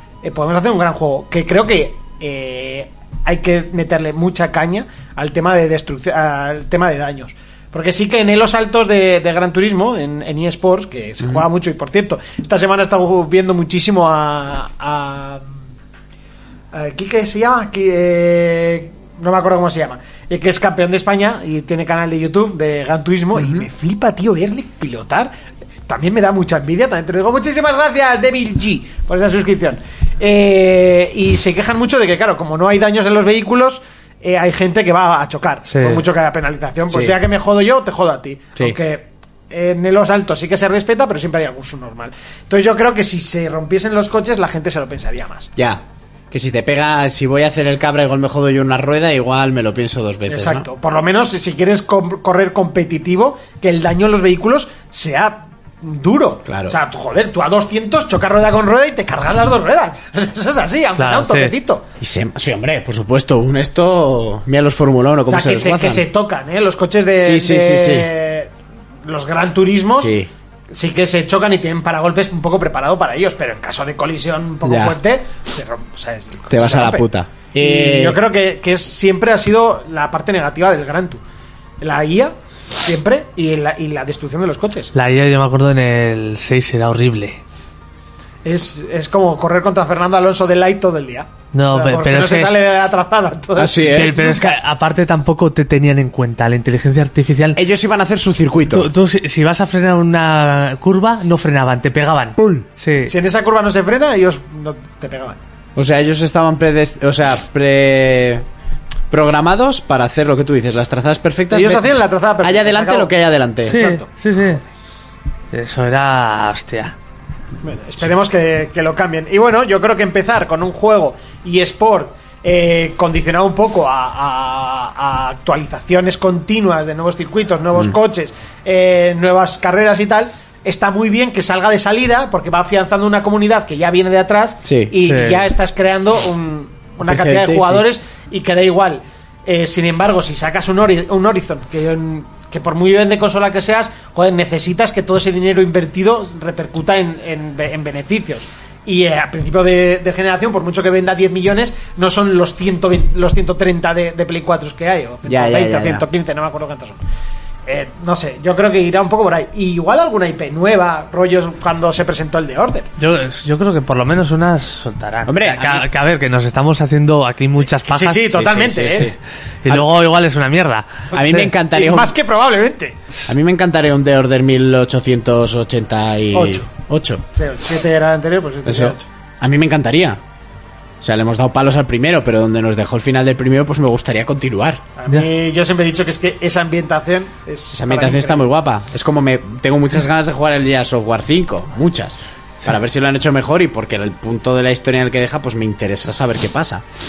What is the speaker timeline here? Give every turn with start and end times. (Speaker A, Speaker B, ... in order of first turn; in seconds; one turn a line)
Speaker A: 0.2-15.5
Speaker A: 16.7-25.3
Speaker B: 23.3-23.7
Speaker A: 25.9-45.5
Speaker C: 35.7-36.0
Speaker B: 36.9-37.1
Speaker B: 45.5-50.7
Speaker A: 50.3-61.8
Speaker B: 56.5-56.8
Speaker C: 61.0-61.5
Speaker B: 62.0-66.0
Speaker A: 65.3-68.5
Speaker B: 67.2-68.1
Speaker A: 69.0-70.1
Speaker B: 69.9-70.3
Speaker A: 70.7-81.2
Speaker B: 74.6-75.0
Speaker B: 76.5-78.2
Speaker A: 81.8-84.9
Speaker C: 84.9-87.4
Speaker A: 88.4-94.6
Speaker C: 91.5-92.5
Speaker B: 93.5-94.2
Speaker C: 93.9-97.6
Speaker B: 97.5-98.9
Speaker C: 98.7-103.1
Speaker B: 102.4-102.7
Speaker A: 103.1-105.4
Speaker B: 105.8-108.4
Speaker B: 109.1-111.9
Speaker A: 111.5-113.1
Speaker B: 112.4-113.8
Speaker A: 113.6-114.1
Speaker C: 113.7-114.6
Speaker C: 115.5-117.0
Speaker A: 117.6-157.0
Speaker B: 134.6-134.9
Speaker C: 135.0-135.4
Speaker B: 137.0-137.8
Speaker B: 155.2-156.0
Speaker A: 157.7-162.9
Speaker C: 163.0-168.6
Speaker B: 165.2-165.9
Speaker A: 167.8-169.1
Speaker B: 168.3-169.2
Speaker C: 169.6-171.4
Speaker B: 169.7-169.9
Speaker B: 171.1-172.1
Speaker A: 171.1-173.0
Speaker B: 173.3-177.2
Speaker A: 176.3-176.7
Speaker A: 177.3-179.0
Speaker B: 178.6-180.2
Speaker B: 181.0-184.8
Speaker A: 185.0-188.5
Speaker B: 187.7-196.8